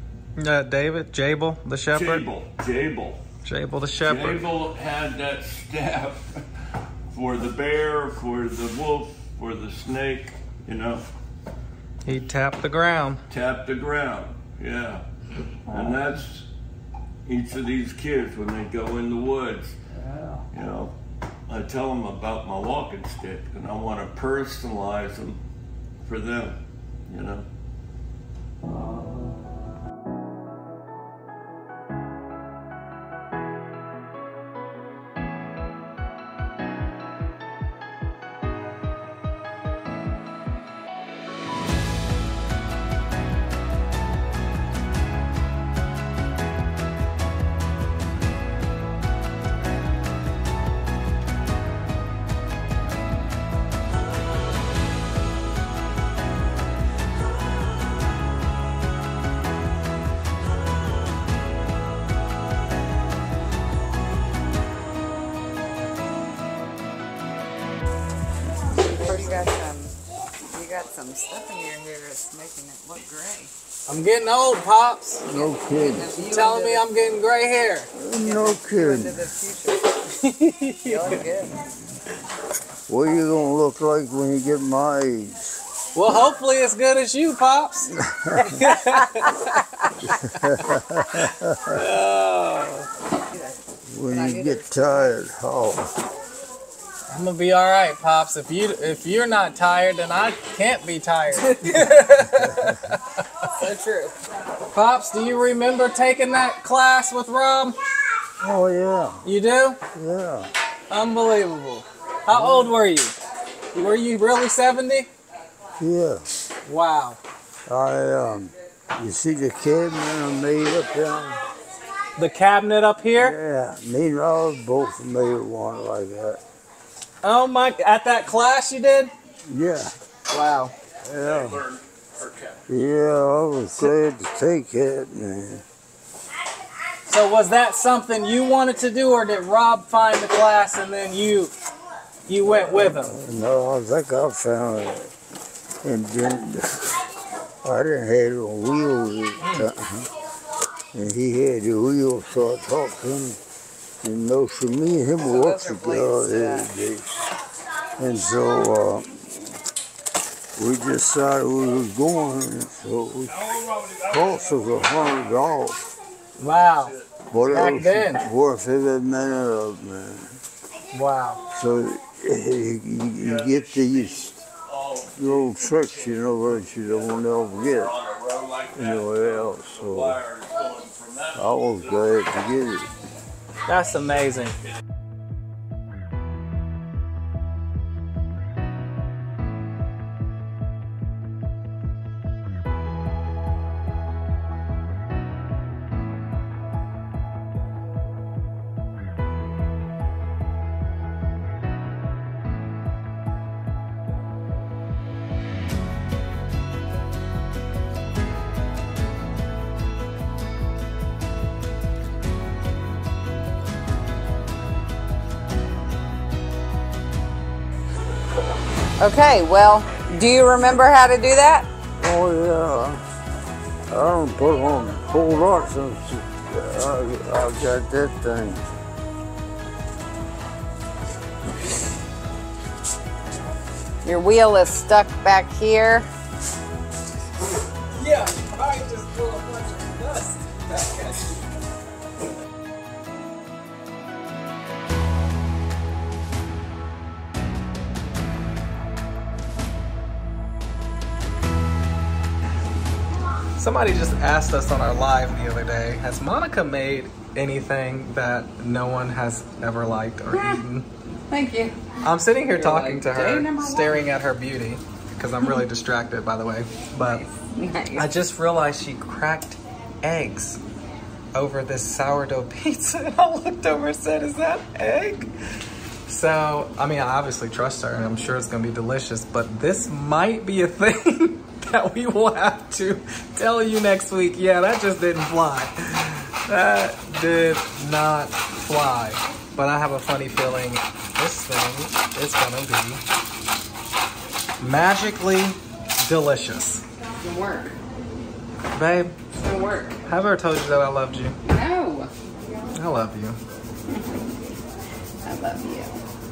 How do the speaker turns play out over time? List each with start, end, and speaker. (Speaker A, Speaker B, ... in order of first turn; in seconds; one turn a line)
Speaker A: 0.4-2.2
Speaker B: 1.9-3.2
Speaker A: 3.4-4.5
Speaker B: 4.0-6.4
Speaker B: 7.1-11.1
Speaker A: 12.1-13.2
Speaker B: 13.3-15.0
Speaker B: 15.7-16.5
Speaker B: 17.2-19.7
Speaker B: 20.5-20.9
Speaker B: 21.5-25.4
Speaker B: 26.0-27.4
Speaker C: 68.7-70.0
Speaker C: 70.5-73.5
Speaker A: 73.9-75.2
Speaker D: 75.2-76.1
Speaker C: 75.3-76.9
Speaker A: 76.2-77.9
Speaker D: 77.9-79.2
Speaker C: 78.2-79.9
Speaker A: 80.2-81.2
Speaker C: 80.8-81.5
Speaker D: 82.9-85.5
Speaker A: 86.0-92.9
Speaker D: 87.9-88.4
Speaker D: 90.1-91.6
Speaker D: 93.9-96.0
Speaker C: 94.1-94.8
Speaker A: 97.1-103.5
Speaker C: 103.5-104.1
Speaker A: 104.7-107.7
Speaker D: 108.4-109.2
Speaker A: 109.2-109.8
Speaker D: 109.9-110.5
Speaker A: 110.9-113.1
Speaker A: 113.7-115.1
Speaker D: 115.8-116.3
Speaker A: 116.7-117.2
Speaker D: 117.7-121.4
Speaker A: 122.2-123.3
Speaker D: 123.1-126.4
Speaker A: 127.2-129.1
Speaker D: 129.5-129.9
Speaker A: 130.3-130.7
Speaker D: 131.0-131.6
Speaker B: 131.1-132.6
Speaker D: 132.7-135.6
Speaker A: 137.1-141.5
Speaker A: 142.3-143.1
Speaker D: 142.4-145.1
Speaker D: 145.8-147.1
Speaker D: 147.6-150.1
Speaker D: 150.9-153.4
Speaker D: 154.0-157.3
Speaker C: 155.2-156.7
Speaker D: 158.0-159.4
Speaker D: 160.6-165.8
Speaker B: 163.8-164.3
Speaker A: 166.4-166.9
Speaker D: 167.3-170.3
Speaker A: 167.5-168.2
Speaker A: 170.9-171.4
Speaker D: 171.5-174.4
Speaker B: 173.2-182.4
Speaker D: 175.2-177.9
Speaker D: 178.7-180.2
Speaker D: 181.3-182.9
Speaker A: 183.7-184.5
Speaker C: 219.0-221.7
Speaker D: 222.0-223.0
Speaker D: 223.9-228.6
Speaker C: 234.0-236.1
Speaker A: 237.8-241.4
Speaker A: 253.6-260.9
Speaker C: 260.3-260.6
Speaker C: 261.3-261.8
Speaker A: 262.0-267.2
Speaker C: 262.4-264.1
Speaker C: 267.0-268.2
Speaker A: 268.0-270.6
Speaker A: 271.3-275.3
Speaker A: 276.1-293.0
Speaker A: 294.6-296.8
Speaker C: 297.2-297.8
Speaker A: 298.7-299.2
Speaker C: 299.3-300.0
Speaker A: 300.1-301.4
Speaker C: 301.4-302.1
Speaker A: 302.7-303.4
Speaker C: 305.2-306.0